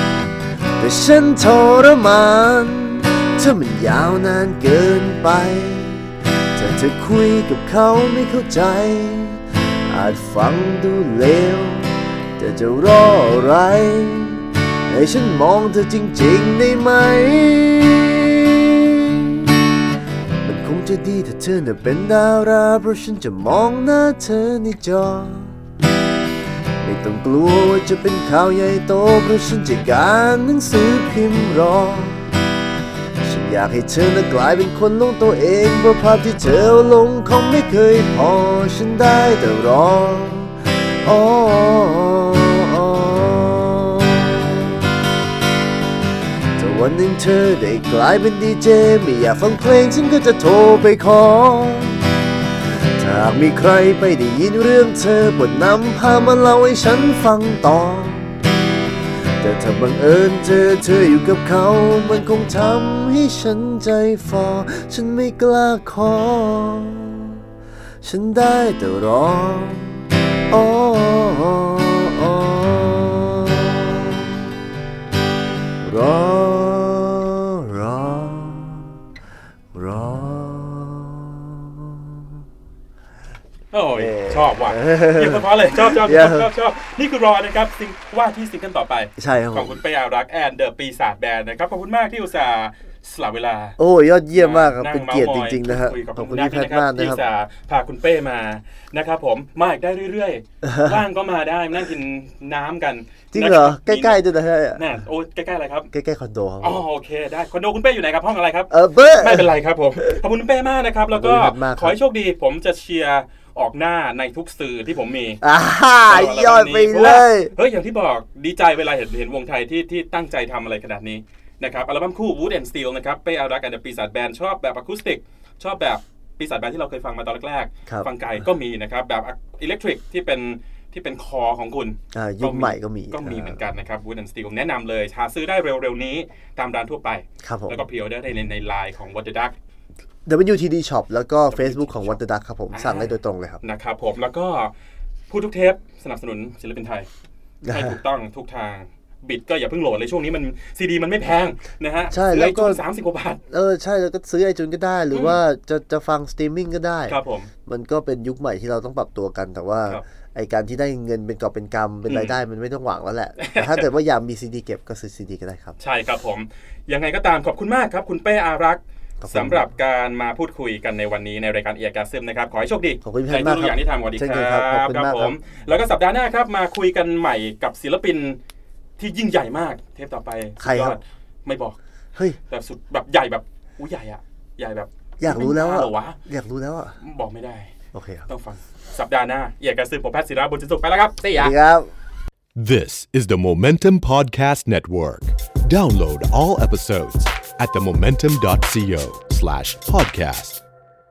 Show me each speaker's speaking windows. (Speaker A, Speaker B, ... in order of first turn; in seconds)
Speaker A: 0.8-19.4, 20.4-25.6, 26.8-32.3, 33.2-44.7, 46.6-52.0, 52.7-58.4, 59.4-67.4, 68.0-74.5, 75.8-79.0, 79.7-82.3, 83.9-86.5, 89.2-89.8, 93.8-97.2, 100.6-101.0, 103.3-104.8, 105.9-106.8, 108.7-110.2, 111.1-112.0, 115.4-117.5, 132.1-133.6, 137.4-137.8, 140.3-143.6, 147.6-148.0, 152.1-152.8, 153.5-165.8, 169.2-169.6, 173.0-175.4, 180.6-181.0, 185.2-187.0, 187.9-188.3, 191.4-191.9
Speaker B: 83.7-93.8, 94.3-104.2, 104.7-105.9, 106.6-115.4, 116.1-139.6, 141.5-142.2, 142.7-143.1, 143.6-144.7, 145.3-147.1, 147.7-153.4, 157.1-157.5, 162.1-162.4, 163.4-163.8, 165.8-178.4, 179.0-181.8, 182.5-186.2, 187.0-187.7, 188.3-191.5
Speaker C: 192.6-200.6